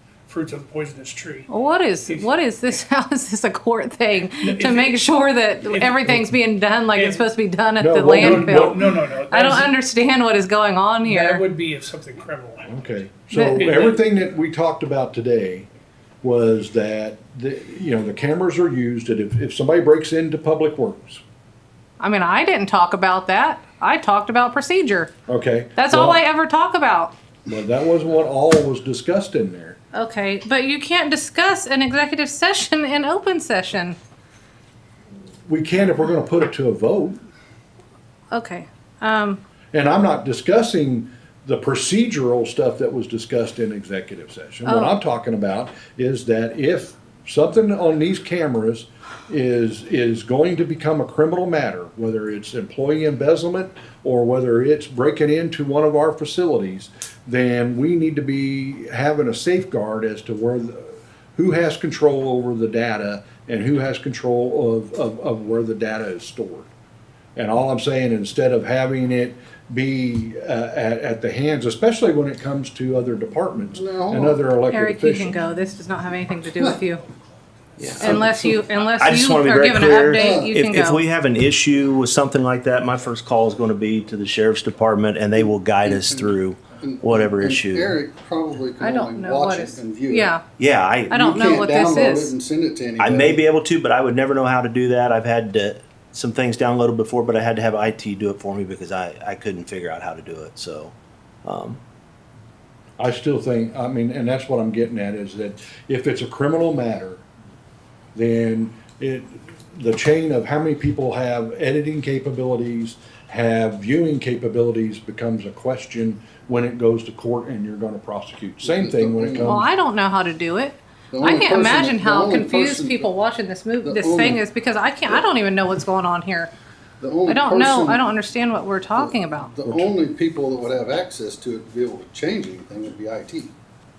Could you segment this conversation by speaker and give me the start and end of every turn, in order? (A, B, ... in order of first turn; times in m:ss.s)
0:00.2-0:01.5 A
0:01.5-0:11.4 B
0:02.0-0:02.3 A
0:04.4-0:06.4 A
0:06.9-0:07.3 A
0:07.8-0:08.9 C
0:08.2-0:09.7 A
0:11.0-0:14.0 A
0:12.7-0:15.7 C
0:13.3-0:13.6 B
0:16.2-0:21.2 C
0:22.0-0:25.1 B
0:25.3-0:26.2 C
0:25.8-0:27.1 B
0:27.4-0:29.8 C
0:29.9-0:34.0 B
0:35.5-0:37.2 C
0:38.3-0:39.4 B
0:39.7-1:06.7 C
0:44.6-0:45.0 B
1:07.4-1:15.4 C
1:13.7-1:14.4 D
1:14.7-1:17.0 B
1:17.8-1:27.9 E
1:18.0-1:18.6 D
1:18.0-1:21.0 B
1:20.1-1:20.5 D
1:25.8-1:30.3 D
1:28.8-1:30.5 B
1:30.6-1:31.2 E
1:31.1-1:33.4 D
1:31.1-1:32.3 B
1:33.0-1:41.8 E
1:43.0-1:47.2 C
1:48.1-1:59.7 C
1:58.6-1:59.6 D
1:59.4-2:06.5 B
2:01.1-2:03.1 D
2:03.8-2:04.4 D
2:07.0-2:08.1 D
2:07.3-2:09.6 B
2:09.0-2:13.5 D